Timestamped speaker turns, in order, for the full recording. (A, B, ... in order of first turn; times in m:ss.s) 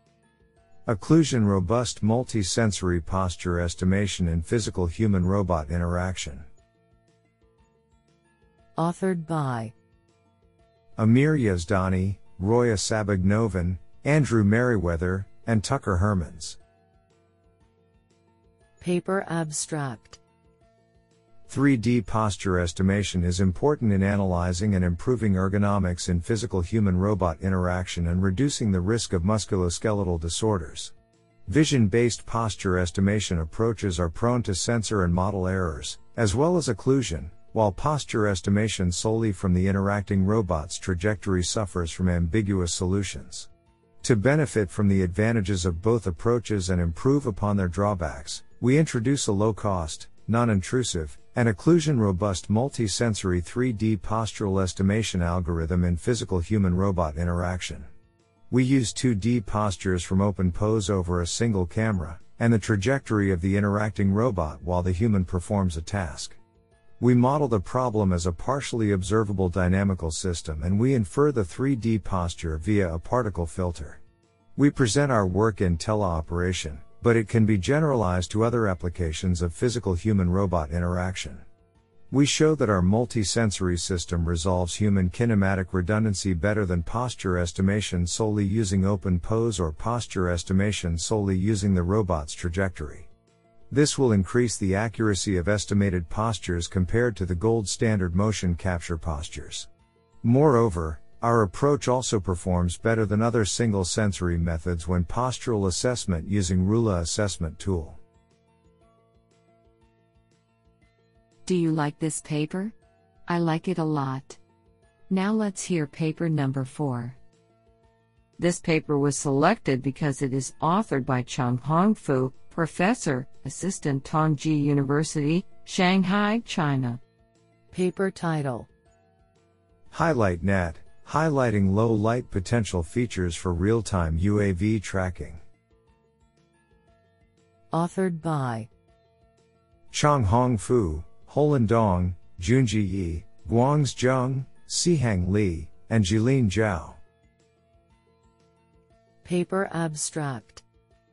0:00.8-0:06.4 A
0:08.8-0:09.7 B
0:11.0-0:16.6 A
0:18.8-0:20.2 B
0:21.5-0:30.9 A
0:31.5-0:43.5 A
0:44.0-0:57.9 A
0:58.5-1:06.4 A
1:07.0-1:14.0 A
1:14.6-1:21.4 A
1:22.1-1:33.1 A
1:33.7-1:39.7 A
1:40.2-1:48.0 A
1:51.4-1:52.7 C
1:53.3-1:54.4 C
1:55.1-1:57.2 C
1:58.4-2:07.0 C
2:07.7-2:08.7 B
2:09.9-2:15.4 A
2:17.7-2:18.7 B
2:19.9-2:27.0 A
2:29.2-2:30.6 B